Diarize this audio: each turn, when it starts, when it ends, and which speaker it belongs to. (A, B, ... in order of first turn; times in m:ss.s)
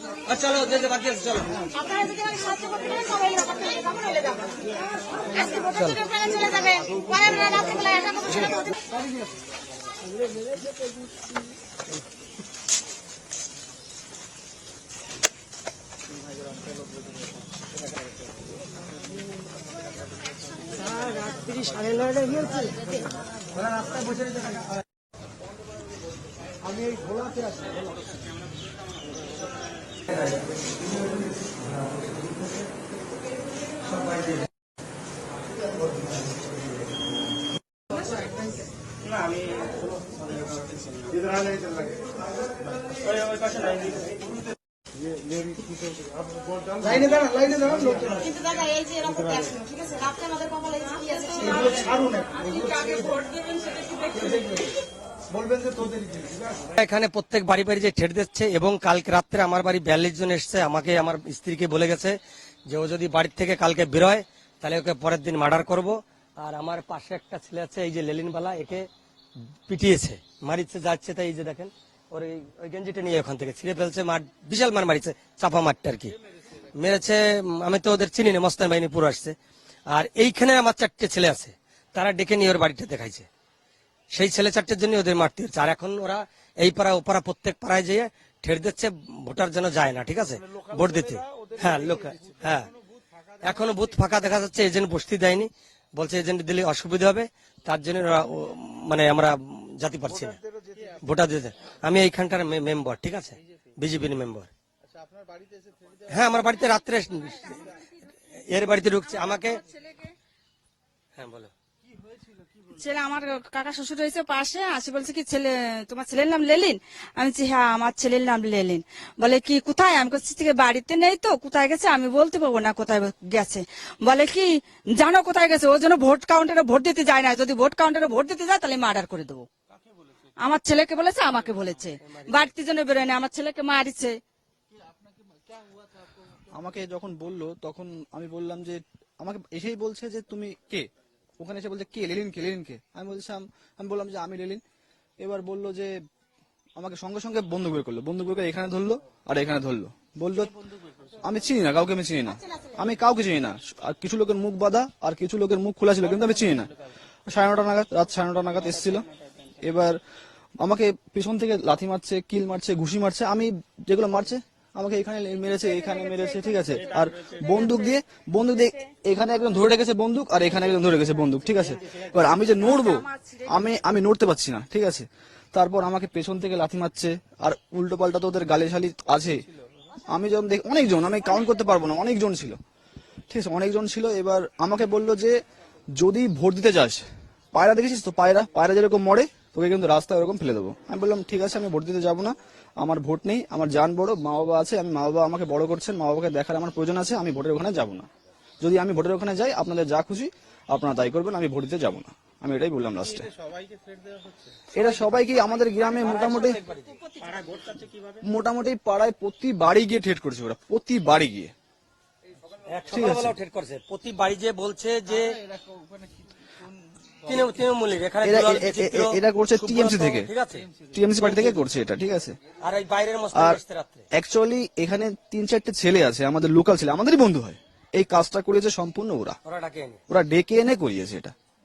0:00.3-0:01.6 A
0:01.9-0:04.4 B
0:02.2-0:03.9 C
0:05.5-0:06.7 A
0:06.6-0:08.4 B
0:23.7-0:24.5 A
0:43.2-0:43.8 A
0:46.8-0:48.5 D
0:48.5-0:51.3 B
0:49.0-0:49.5 D
0:50.6-0:51.0 C
0:51.4-0:53.2 D
0:54.1-0:54.7 D
0:55.3-0:56.4 D
0:56.8-1:08.9 A
1:09.7-1:16.2 A
1:16.7-1:19.4 A
1:19.9-1:23.3 A
1:24.1-1:32.7 A
1:33.4-1:40.4 A
1:41.0-1:44.5 A
1:44.9-1:46.0 B
1:46.1-1:49.6 A
1:51.2-1:51.5 A
1:52.1-1:52.4 B
1:52.7-2:09.5 C
2:10.4-2:14.2 C
2:12.0-2:12.4 A
2:15.4-2:15.8 B
2:16.5-2:20.9 E
2:21.4-2:24.6 E
2:25.2-2:26.0 E
2:26.7-2:30.5 E
2:31.2-2:36.7 E
2:37.3-2:40.0 E
2:40.6-2:59.5 E
2:45.4-2:48.9 C
2:50.8-2:53.7 C
3:00.1-3:02.6 E
3:03.3-3:05.4 E
3:05.9-3:18.1 E
3:18.6-3:23.3 E
3:23.4-3:24.5 B
3:24.7-3:26.6 E
3:25.8-3:28.1 A
3:28.2-3:31.5 E
3:32.7-3:35.4 A
3:32.9-3:33.4 E
3:35.5-3:36.2 B
3:37.2-3:41.6 A
3:38.2-3:40.3 E
3:40.9-3:42.4 E
3:42.6-3:44.0 A
3:43.3-3:43.6 E
3:44.1-3:49.4 E
3:49.4-3:50.0 A
3:50.1-3:51.3 E